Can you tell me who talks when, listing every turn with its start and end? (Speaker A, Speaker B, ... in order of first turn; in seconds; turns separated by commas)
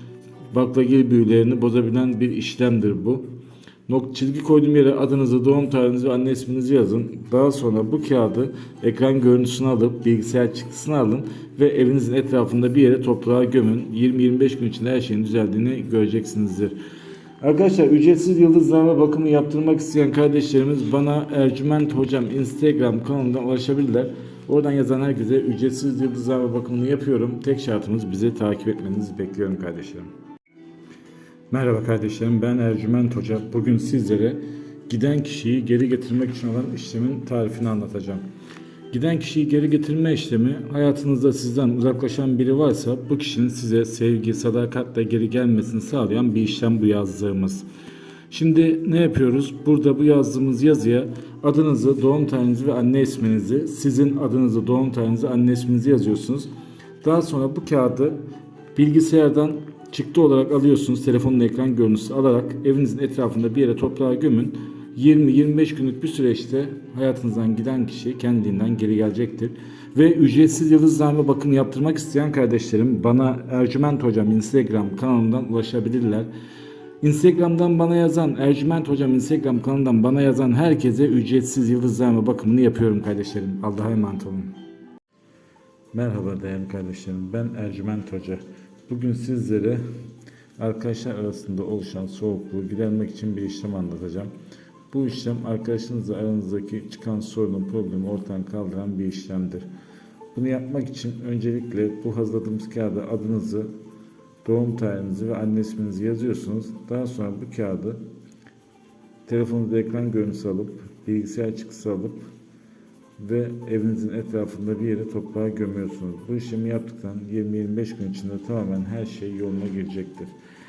Speaker A: 0.5-3.2, Speaker A: 3.9-16.8, Speaker A: 17.4-30.1, Speaker A: 31.5-38.2, Speaker A: 38.9-47.7, Speaker A: 48.3-56.5, Speaker A: 57.0-58.2, Speaker A: 58.8-76.3, Speaker A: 77.0-84.5, Speaker A: 85.9-89.8, Speaker A: 90.6-94.3, Speaker A: 94.9-99.7, Speaker A: 100.3-103.7, Speaker A: 104.4-108.0, Speaker A: 109.3-112.2, Speaker A: 113.2-120.3